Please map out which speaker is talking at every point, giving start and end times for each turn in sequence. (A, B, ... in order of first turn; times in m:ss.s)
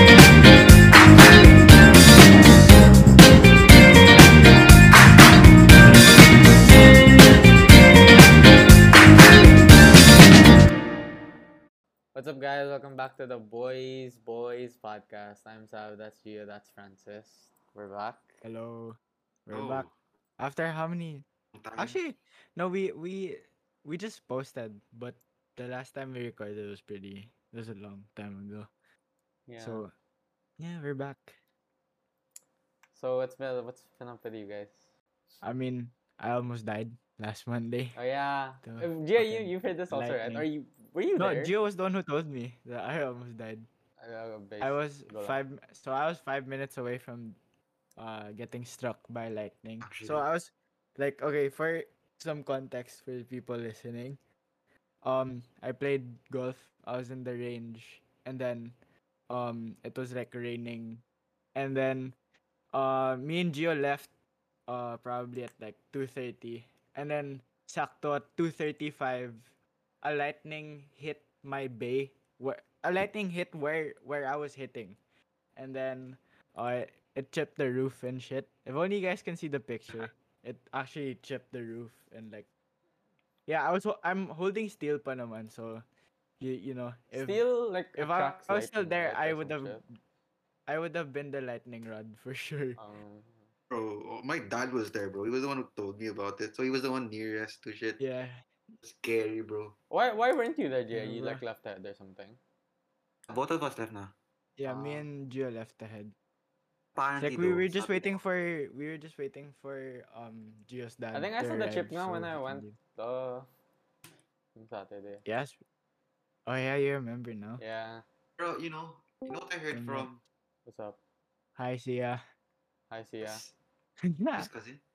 0:12.1-0:18.4 A
0:18.4-0:19.8 B
0:19.5-0:19.9 C
0:20.4-0:28.7 B
0:21.5-0:22.0 C
0:29.5-0:29.8 A
0:29.6-0:29.9 B
0:30.6-0:31.4 B
0:32.9-0:34.9 A
0:35.4-0:38.0 B
0:37.9-0:41.5 A
0:38.6-0:40.5 B
0:41.2-0:43.7 B
0:44.0-0:45.4 A
0:44.6-0:47.4 B
0:48.0-0:54.2 B
0:49.8-0:50.2 C
0:55.0-0:58.8 B
0:59.3-1:01.0 B
1:01.5-1:02.2 B
1:02.7-1:04.1 B
1:04.7-1:15.0 B
1:15.6-1:22.5 B
1:23.5-1:25.8 B
1:26.4-1:27.4 B
1:27.1-1:29.8 A
1:27.9-1:29.9 B
1:30.7-1:32.8 B
1:32.8-1:33.5 A
1:33.7-1:38.0 C
1:38.0-1:38.4 B
1:38.8-1:39.8 C
1:39.9-1:42.4 A
1:40.9-1:41.4 B
1:43.3-1:44.1 C
1:44.6-1:46.1 B
1:44.6-1:45.1 A
1:46.9-1:48.2 C
1:47.2-1:52.8 B
1:51.1-1:53.5 A
1:54.5-1:55.2 A
1:55.2-1:55.6 B
1:56.4-1:57.6 B
1:57.6-1:58.0 A
1:58.4-2:00.2 C
1:59.7-2:00.1 B
2:00.6-2:01.0 A
2:01.6-2:02.2 B
2:02.9-2:03.4 A
2:03.2-2:03.5 C
2:04.0-2:04.5 B
2:04.3-2:04.8 C